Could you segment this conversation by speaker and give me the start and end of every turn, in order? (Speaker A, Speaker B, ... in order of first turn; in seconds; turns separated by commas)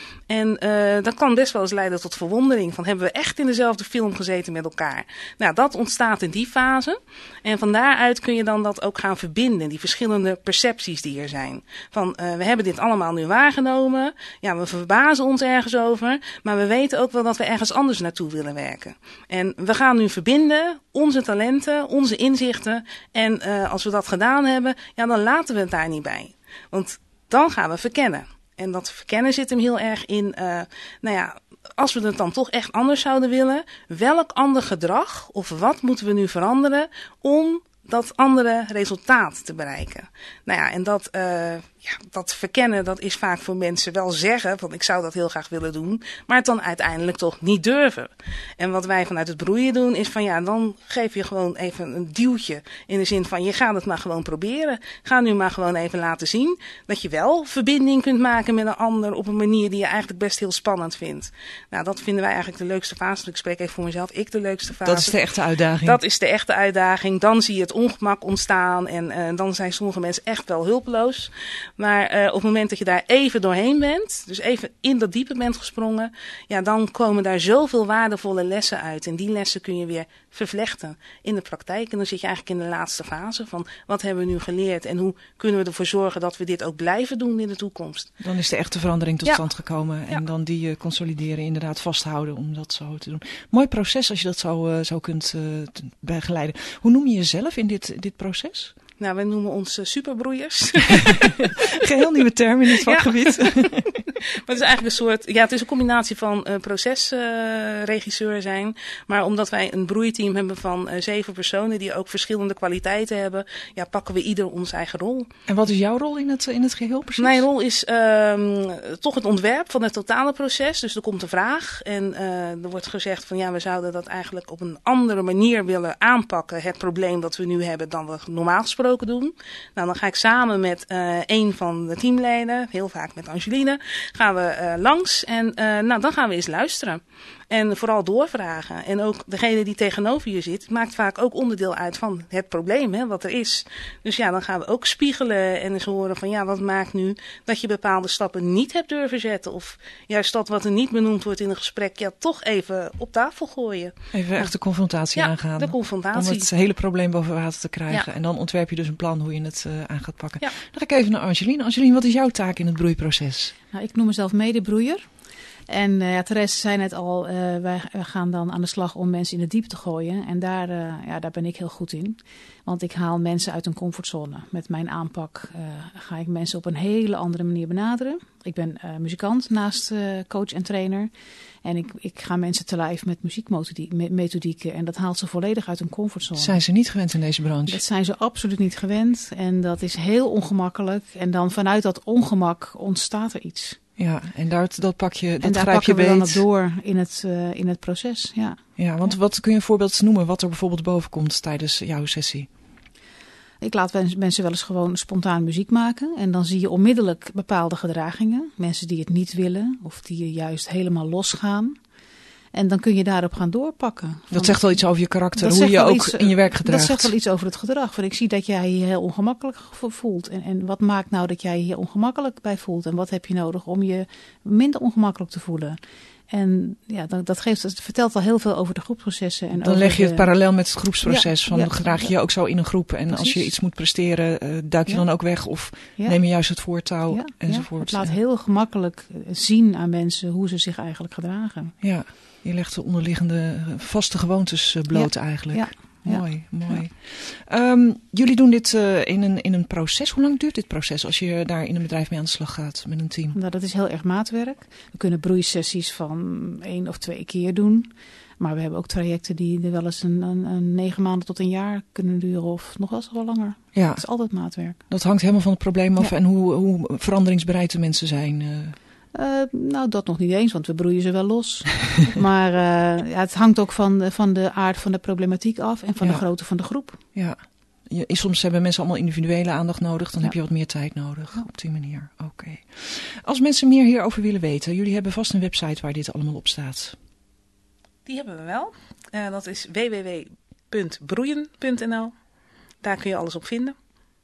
Speaker A: 0.3-65.2, Speaker B: 64.8-66.0, Speaker A: 65.8-88.1, Speaker B: 88.2-98.7, Speaker A: 99.0-101.7, Speaker B: 101.6-104.0, Speaker A: 102.7-115.3, Speaker B: 115.5-117.4, Speaker A: 117.2-154.5, Speaker B: 154.1-163.5, Speaker A: 155.2-156.5, Speaker C: 163.7-165.0, Speaker C: 165.7-181.1, Speaker C: 181.6-186.6, Speaker B: 186.4-187.8, Speaker C: 187.7-193.8, Speaker B: 194.0-196.4, Speaker C: 195.4-198.6, Speaker B: 198.8-202.5, Speaker C: 203.6-211.8, Speaker C: 212.5-214.8, Speaker B: 214.3-217.1, Speaker C: 215.3-225.8, Speaker C: 226.3-230.3, Speaker B: 229.6-238.2, Speaker C: 231.0-232.2, Speaker C: 233.1-233.5, Speaker C: 234.9-235.1, Speaker C: 236.0-241.8, Speaker B: 241.8-253.4, Speaker C: 244.9-246.8, Speaker C: 253.3-264.8, Speaker B: 263.7-268.8, Speaker C: 269.1-277.0, Speaker B: 277.1-287.0, Speaker A: 288.0-292.1, Speaker A: 292.8-293.8